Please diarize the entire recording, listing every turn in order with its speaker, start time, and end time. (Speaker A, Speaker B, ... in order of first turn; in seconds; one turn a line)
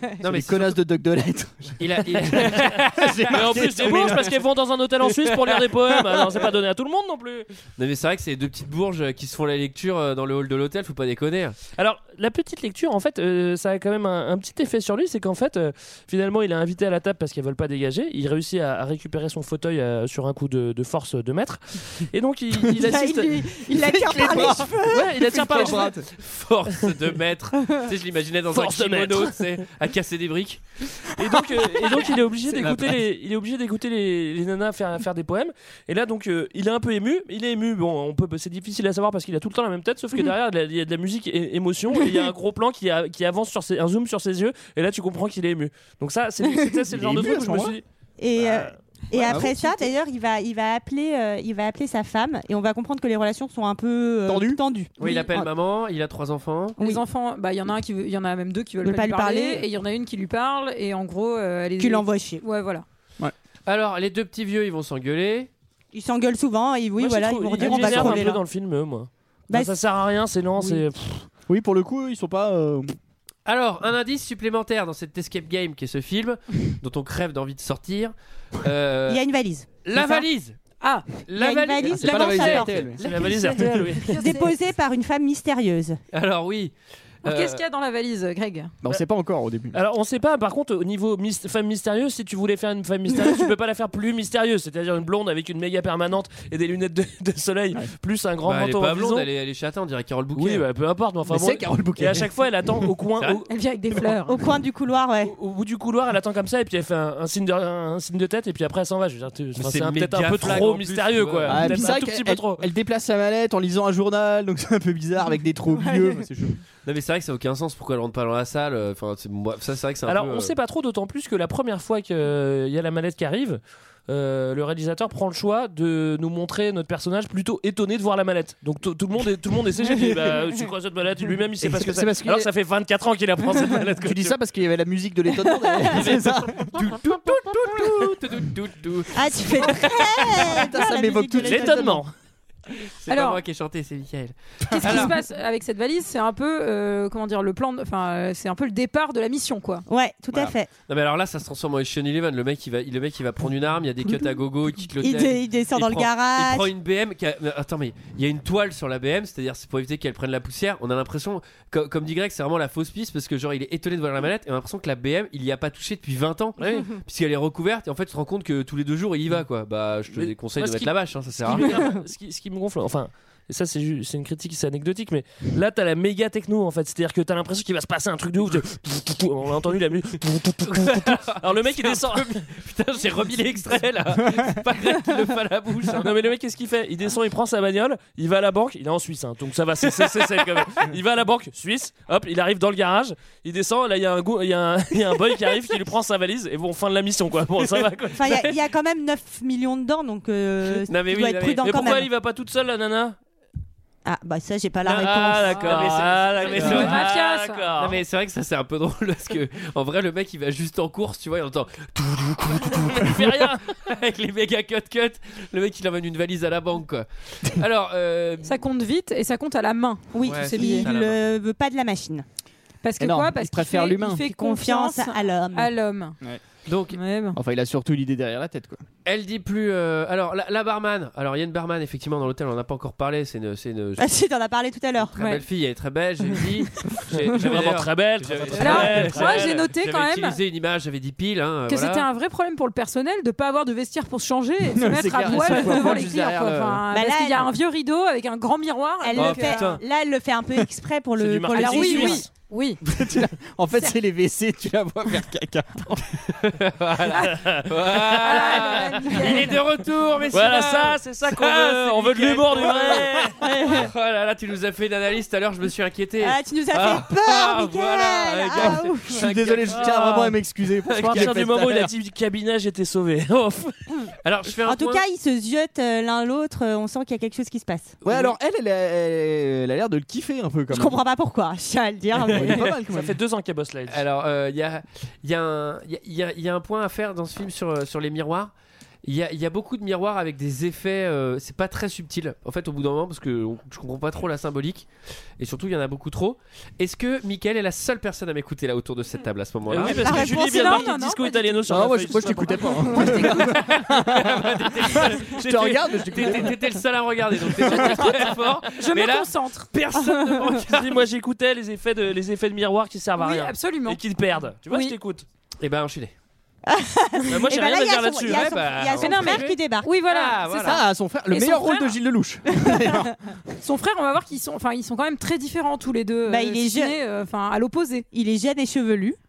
Speaker A: 0.2-0.8
Speaker B: 0.2-4.3
Speaker A: 1.8-4.2
Speaker C: 3.3-7.5
Speaker A: 7.8-11.6
Speaker C: 11.7-23.4
Speaker D: 22.7-25.7
Speaker B: 23.7-26.1
Speaker C: 25.0-25.9
Speaker A: 26.0-30.6
Speaker C: 28.5-29.4
Speaker C: 31.1-47.8
Speaker B: 32.4-33.0
Speaker B: 46.9-47.8
Speaker D: 48.2-55.5
Speaker C: 48.4-48.7
Speaker B: 49.2-49.5
Speaker E: 49.6-49.8
Speaker B: 54.2-54.6
Speaker A: 55.0-56.8
Speaker D: 56.8-57.0
Speaker E: 56.8-62.8
Speaker D: 58.8-59.6
Speaker D: 61.8-62.4
Speaker A: 63.7-65.5
Speaker D: 65.9-68.4
Speaker C: 67.0-71.2
Speaker B: 67.6-68.3
Speaker D: 69.5-69.8
Speaker B: 71.5-72.9
Speaker A: 73.5-79.2
Speaker D: 79.1-80.2
Speaker A: 79.8-80.6
Speaker E: 80.8-81.1
Speaker A: 81.2-83.6
Speaker D: 81.3-82.8
Speaker B: 81.8-83.0
Speaker C: 83.0-84.4
Speaker E: 84.1-84.5
Speaker D: 84.2-86.0
Speaker A: 86.1-87.6
Speaker E: 87.2-88.8
Speaker B: 88.8-89.8
Speaker C: 89.7-99.3
Speaker A: 98.4-100.6
Speaker C: 100.3-103.5
Speaker B: 101.3-102.3
Speaker E: 103.5-104.4
Speaker D: 104.2-105.3
Speaker C: 105.2-112.7
Speaker A: 109.5-111.7
Speaker B: 111.5-116.6
Speaker D: 115.8-116.2
Speaker A: 116.8-120.5
Speaker C: 120.0-134.3
Speaker B: 131.6-132.5
Speaker B: 134.0-138.2
Speaker A: 135.9-139.8
Speaker D: 139.1-141.9
Speaker B: 139.6-142.0
Speaker C: 141.4-142.1
Speaker A: 143.0-145.1
Speaker E: 143.1-143.4
Speaker E: 144.7-149.8
Speaker D: 149.9-150.7
Speaker A: 150.9-171.8
Speaker D: 155.0-156.7
Speaker C: 170.1-182.4
Speaker A: 180.6-186.1
Speaker C: 185.9-198.5
Speaker D: 198.1-202.1
Speaker A: 200.9-201.7
Speaker C: 201.6-203.2
Speaker D: 204.0-205.6
Speaker C: 204.8-208.0
Speaker A: 204.9-207.1
Speaker E: 206.5-207.7
Speaker A: 207.8-218.5
Speaker C: 212.7-213.7
Speaker E: 218.4-220.9
Speaker D: 220.1-222.2
Speaker A: 220.2-221.2
Speaker E: 222.8-226.2
Speaker B: 223.0-224.2
Speaker D: 224.2-225.7
Speaker A: 226.7-227.0
Speaker E: 226.9-227.4
Speaker B: 227.3-228.8
Speaker A: 229.0-234.1
Speaker D: 234.0-235.2
Speaker A: 235.1-242.1
Speaker C: 237.2-239.6
Speaker E: 238.5-240.4
Speaker E: 241.7-249.8
Speaker B: 244.7-246.8
Speaker D: 246.9-247.5
Speaker D: 249.0-252.3
Speaker A: 249.2-249.8
Speaker C: 251.2-252.3
Speaker E: 251.5-252.8
Speaker B: 252.8-256.2
Speaker A: 256.3-271.5
Speaker C: 257.2-259.5
Speaker E: 258.2-259.5
Speaker C: 260.3-263.4
Speaker D: 263.4-263.9
Speaker D: 266.2-269.3
Speaker B: 268.6-271.9
Speaker C: 271.0-273.8
Speaker A: 274.2-275.0
Speaker D: 274.6-277.9
Speaker A: 278.0-278.3
Speaker B: 278.0-281.0
Speaker D: 280.7-282.7
Speaker B: 282.3-283.2
Speaker C: 282.8-284.0
Speaker A: 283.9-288.5
Speaker A: 289.0-300.0
Speaker C: 299.7-302.8
Speaker D: 299.8-300.9
Speaker E: 300.1-301.6
Speaker B: 301.7-304.5
Speaker E: 302.2-303.2
Speaker A: 303.2-311.0
Speaker B: 305.1-306.6
Speaker C: 305.4-306.4
Speaker E: 307.8-308.1
Speaker E: 308.7-309.7
Speaker C: 310.7-315.2
Speaker E: 313.2-314.0
Speaker E: 314.7-314.9
Speaker A: 315.6-316.1
Speaker D: 316.6-320.0
Speaker C: 317.3-318.8
Speaker A: 318.2-320.8
Speaker E: 319.0-322.0
Speaker B: 320.6-323.1
Speaker E: 323.6-328.1
Speaker D: 326.2-327.0
Speaker D: 328.1-329.2